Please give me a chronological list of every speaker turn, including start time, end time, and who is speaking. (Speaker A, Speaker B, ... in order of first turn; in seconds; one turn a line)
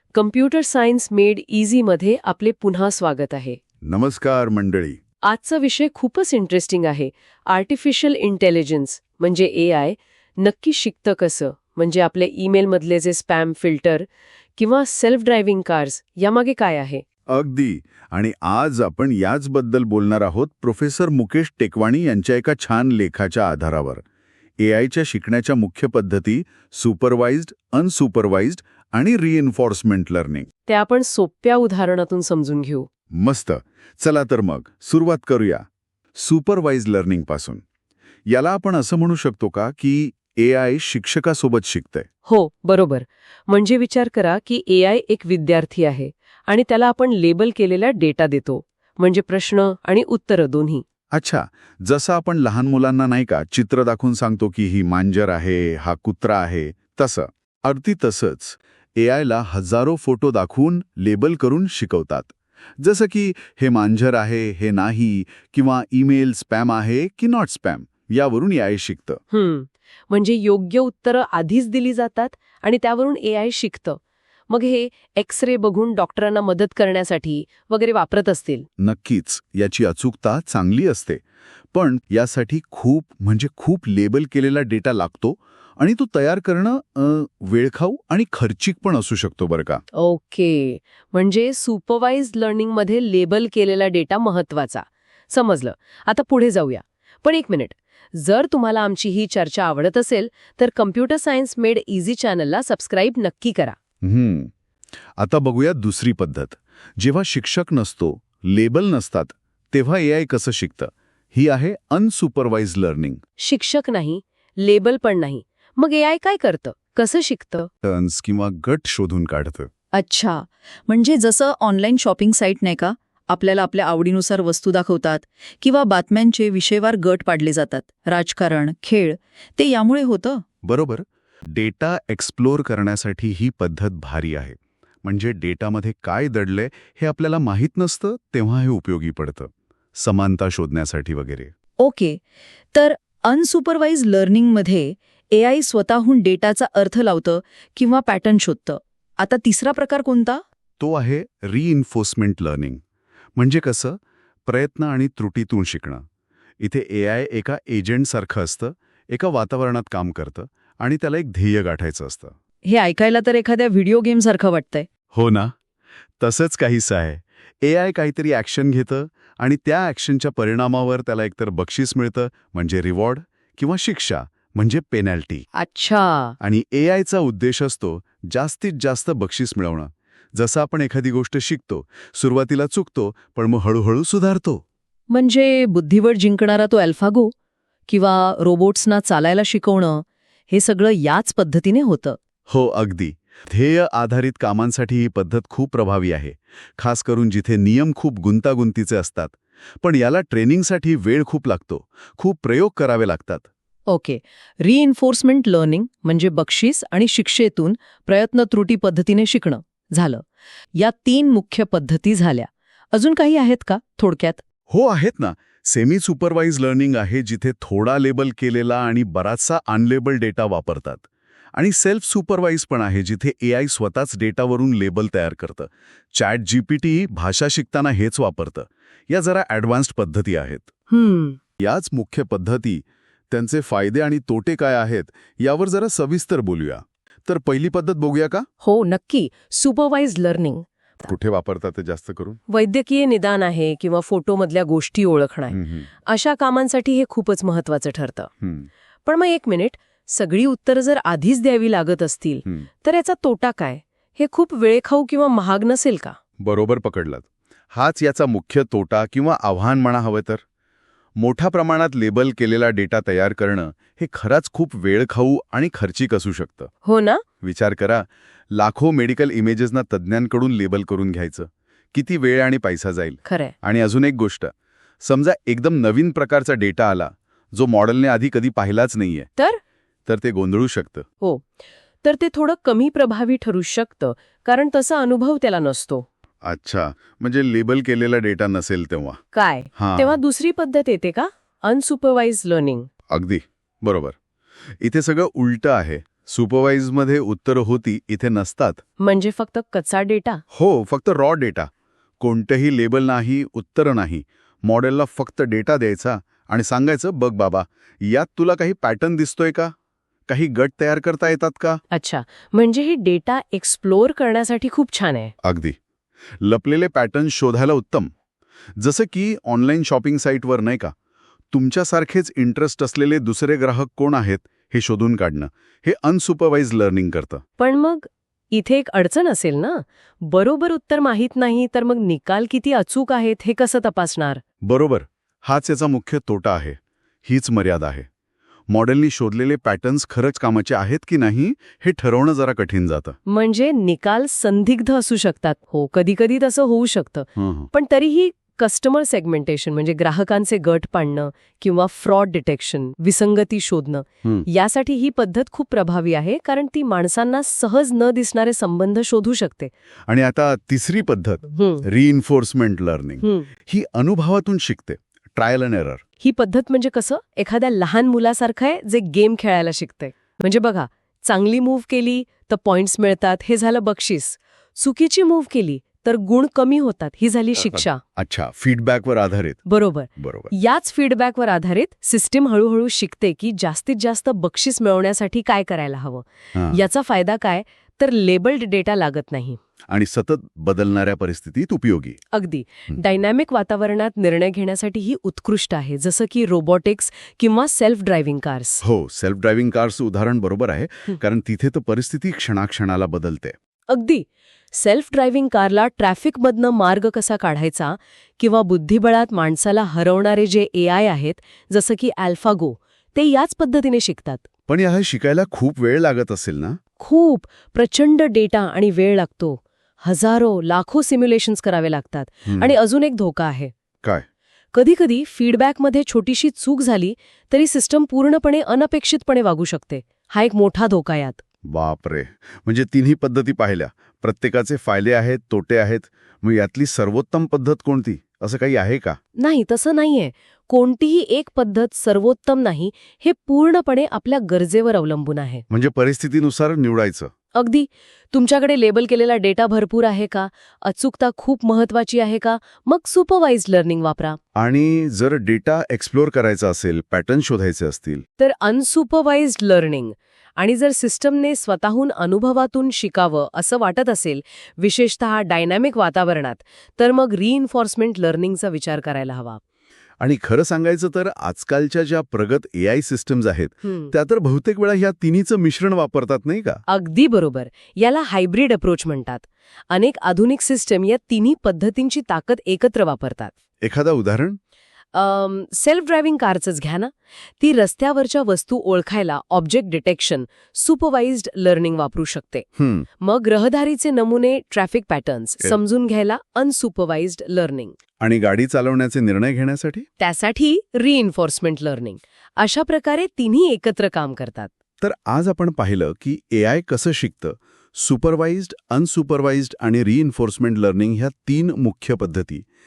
Speaker A: 0.1-3.6
Speaker B: 3.9-5.0
Speaker A: 5.2-17.0
Speaker B: 17.3-24.0
Speaker B: 24.6-30.5
Speaker A: 30.7-32.9
Speaker B: 33.2-35.6
Speaker B: 36.2-37.6
Speaker B: 38.3-42.1
Speaker A: 42.3-50.8
Speaker B: 51.1-69.2
Speaker A: 69.3-74.0
Speaker A: 74.5-78.7
Speaker B: 78.8-81.2
Speaker B: 81.7-89.8
Speaker A: 89.9-103.8
Speaker B: 104.0-104.5
Speaker B: 105.2-113.2
Speaker A: 113.4-117.7
Speaker B: 117.8-119.7
Speaker C: 119.9-130.4
Speaker B: 130.6-141.5
Speaker C: 141.8-142.2
Speaker C: 142.7-150.4
Speaker B: 150.8-152.8
Speaker B: 153.4-156.0
Speaker B: 156.6-162.3
Speaker A: 162.7-164.9
Speaker B: 165.1-165.5
Speaker B: 166.2-175.4
Speaker A: 175.6-176.3
Speaker B: 176.4-184.6
Speaker A: 185.1-187.3
Speaker A: 187.9-192.2
Speaker B: 192.5-203.4
Speaker A: 203.9-210.2
Speaker A: 210.8-214.4
Speaker B: 214.7-221.0
Speaker B: 221.6-230.7
Speaker A: 230.9-231.4
Speaker B: 231.6-238.5
Speaker A: 238.6-241.1
Speaker B: 241.1-242.4
Speaker A: 242.5-248.3
Speaker B: 245.5-245.9
Speaker B: 248.4-248.7
Speaker A: 249.1-256.2
Speaker B: 256.4-260.4
Speaker B: 261.2-266.7
Speaker A: 266.9-267.2
Speaker B: 267.4-274.5
Speaker A: 273.2-273.5
Speaker B: 275.0-279.3
Speaker B: 280.1-281.1
Speaker A: 282.0-286.1
Speaker B: 286.4-289.2
Speaker A: 289.3-292.9
Speaker B: 289.8-290.2
Speaker B: 293.1-294.2
Speaker B: 294.8-298.8
Speaker A: 299.0-300.4
Speaker B: 300.5-301.7
Speaker B: 302.2-309.7
Speaker B: 310.3-311.8
Speaker A: 311.9-315.3
Speaker B: 315.4-315.8
Speaker B: 316.4-318.1
Speaker B: 318.8-320.9
Speaker B: 321.5-327.4
Speaker A: 327.6-334.4
Speaker B: 334.6-338.1
Speaker B: 338.7-343.2
Speaker A: 343.3-359.7
Speaker B: 347.4-347.7
Speaker B: 360.1-366.0
Speaker A: 361.6-361.8
Speaker A: 363.2-363.5
Speaker A: 366.2-378.0
Speaker B: 377.7-379.6
Speaker A: 379.7-389.6
Speaker B: 380.2-380.5
Speaker B: 386.6-386.8
Speaker B: 389.9-392.2
Speaker A: 392.3-398.8
Speaker B: 398.8-403.6
Speaker A: 403.9-414.4
Speaker B: 414.7-416.8
Speaker A: 417.0-423.7
Speaker B: 422.5-422.7
Speaker A: 424.7-431.4
Speaker B: 431.7-439.2
Speaker A: 439.4-445.6
Speaker B: 445.7-447.3
Speaker A: 447.6-454.4
Speaker B: 454.6-458.2
Speaker A: 458.4-469.6
Speaker B: 470.2-476.8
Speaker A: 473.8-474.1
Speaker A: 476.9-483.5
Speaker B: 483.8-484.6
Speaker A: 485.1-492.7
Speaker B: 492.8-493.1
Speaker A: 493.2-497.9
Speaker B: 498.2-500.1
Speaker A: 500.2-504.7
Speaker B: 505.0-512.6